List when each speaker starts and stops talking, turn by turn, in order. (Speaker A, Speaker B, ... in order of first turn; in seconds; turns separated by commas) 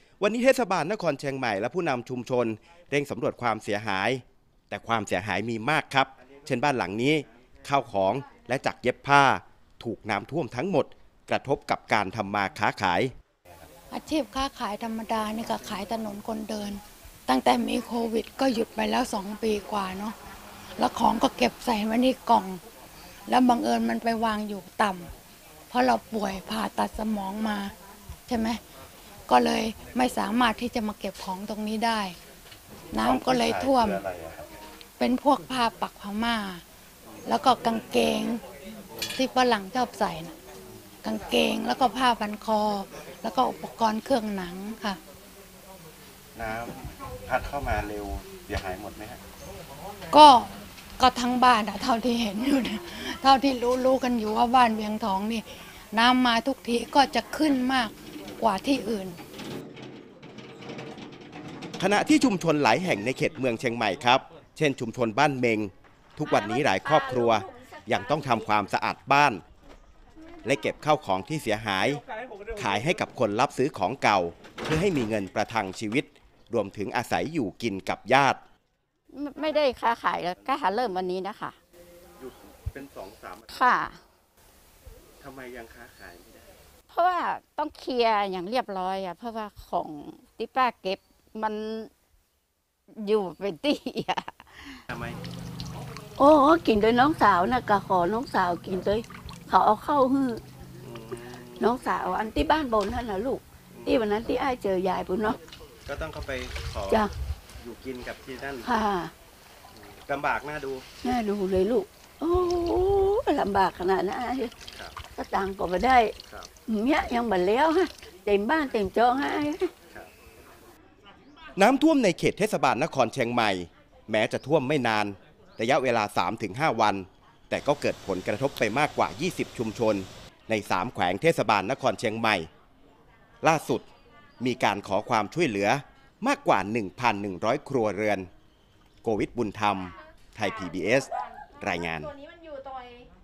Speaker A: 0.2-13.1, Speaker B: 13.9-20.2, Speaker B: 20.8-22.6, Speaker B: 23.3-25.1, Speaker B: 25.7-27.7, Speaker B: 28.3-28.6, Speaker B: 29.3-32.2, Speaker B: 32.9-34.0, Speaker A: 33.0-34.5, Speaker B: 35.0-36.6, Speaker B: 37.2-38.4, Speaker B: 39.1-40.3, Speaker B: 41.0-45.0, Speaker A: 46.4-49.2, Speaker B: 50.1-59.2, Speaker A: 61.8-69.4, Speaker C: 66.2-68.1, Speaker D: 66.3-68.5, Speaker A: 70.4-72.0, Speaker A: 72.5-78.4, Speaker C: 79.1-81.6, Speaker A: 80.4-81.0, Speaker A: 82.2-83.5, Speaker C: 83.5-84.0, Speaker A: 85.2-86.5, Speaker C: 86.9-91.9, Speaker C: 93.0-94.8, Speaker A: 94.9-95.2, Speaker D: 96.2-100.4, Speaker A: 100.8-101.6, Speaker D: 101.6-105.4, Speaker A: 105.9-107.0, Speaker A: 107.6-108.7, Speaker D: 108.6-109.1, Speaker A: 109.8-110.8, Speaker D: 111.0-114.5, Speaker D: 115.2-116.1, Speaker D: 116.7-119.7, Speaker A: 121.5-132.5, Speaker A: 133.4-133.9, Speaker A: 134.4-138.3, Speaker A: 139.0-142.1, Speaker C: 140.4-143.1